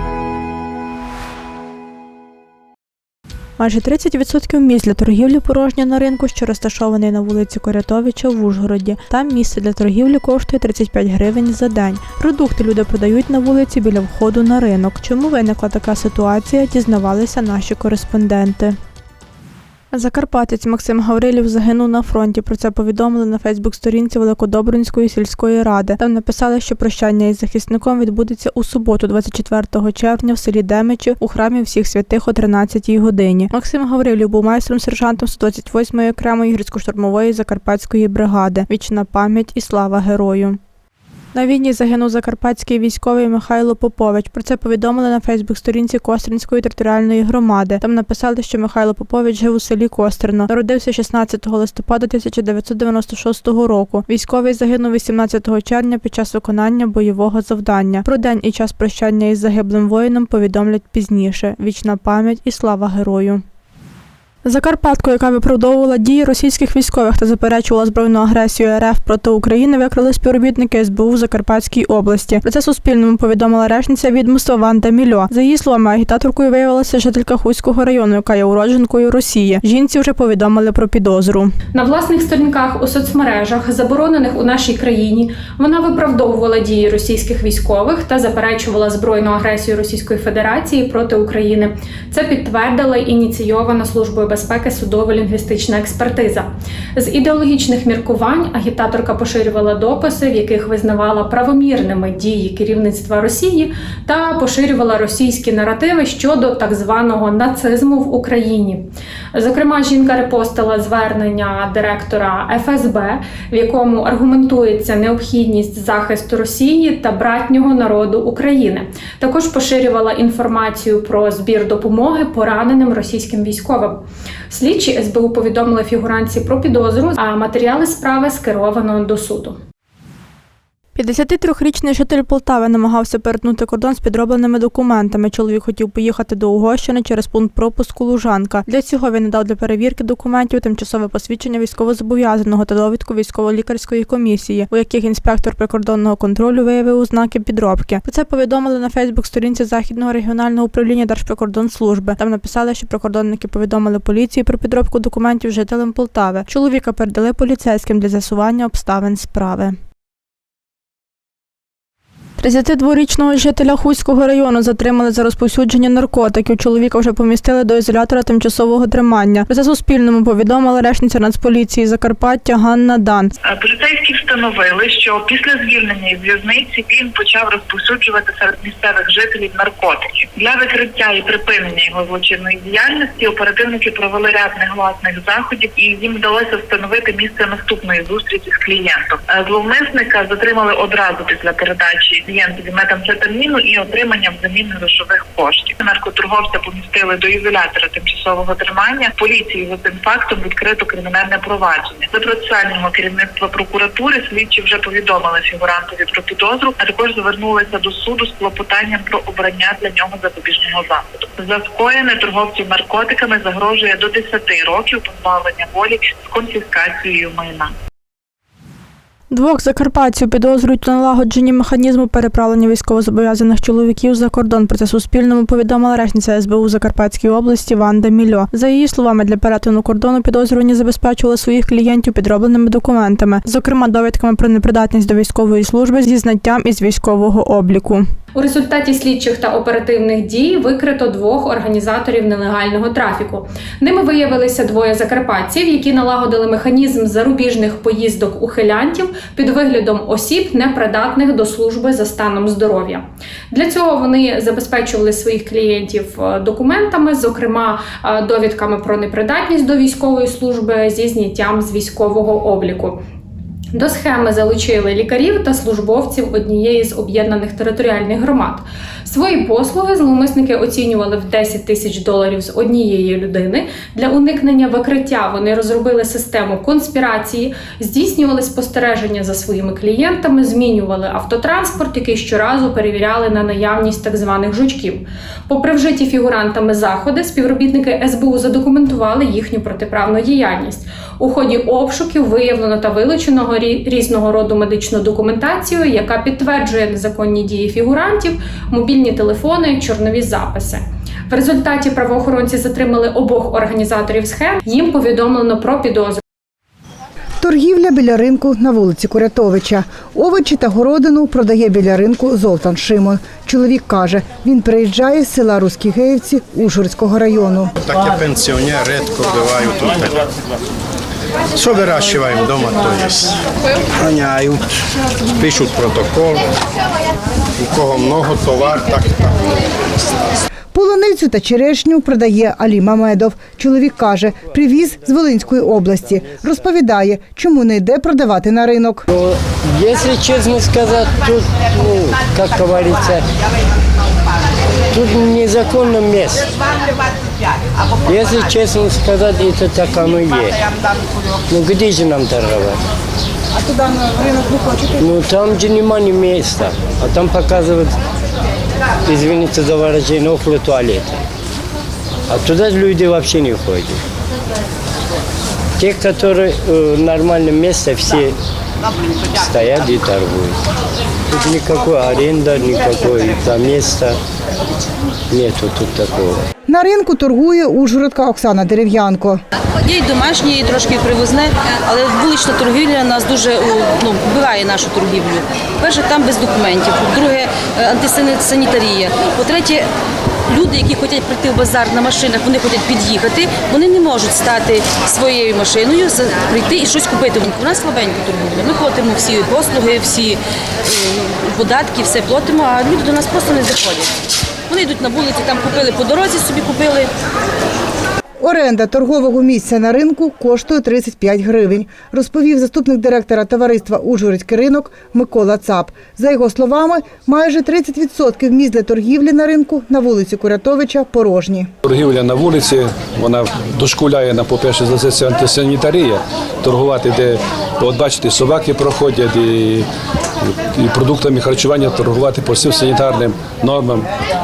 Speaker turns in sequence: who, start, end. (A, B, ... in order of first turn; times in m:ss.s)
0:03.6-0:18.8 A
0:19.9-0:40.6 A
0:41.3-1:03.4 A
1:04.4-1:21.5 A
1:21.7-2:09.6 B
2:11.0-2:39.8 A
2:42.4-2:53.3 A
2:53.5-3:37.7 C
3:39.3-3:58.0 A
3:58.4-4:23.0 B
4:23.7-5:06.2 B
5:07.4-5:17.7 D
5:17.8-5:20.3 E
5:21.5-5:23.4 E
5:24.0-5:24.7 E
5:25.4-5:26.4 E
5:27.6-5:29.6 E
5:30.7-5:39.0 D
5:39.1-5:43.2 F
5:44.9-5:46.5 F
5:48.0-5:50.6 F
5:51.5-5:52.8 F
5:54.0-5:54.8 D
5:54.9-5:58.0 F
5:59.0-6:01.2 F
6:02.3-6:04.0 F
6:05.8-6:08.4 F
6:09.3-6:10.6 F
6:11.3-6:14.2 F
6:15.3-6:16.4 F
6:16.7-6:19.4 D
6:19.8-6:29.9 G
6:30.5-6:44.1 G
6:44.7-6:47.1 G
6:48.4-7:01.7 D
7:01.8-7:09.9 H
7:10.8-7:14.1 H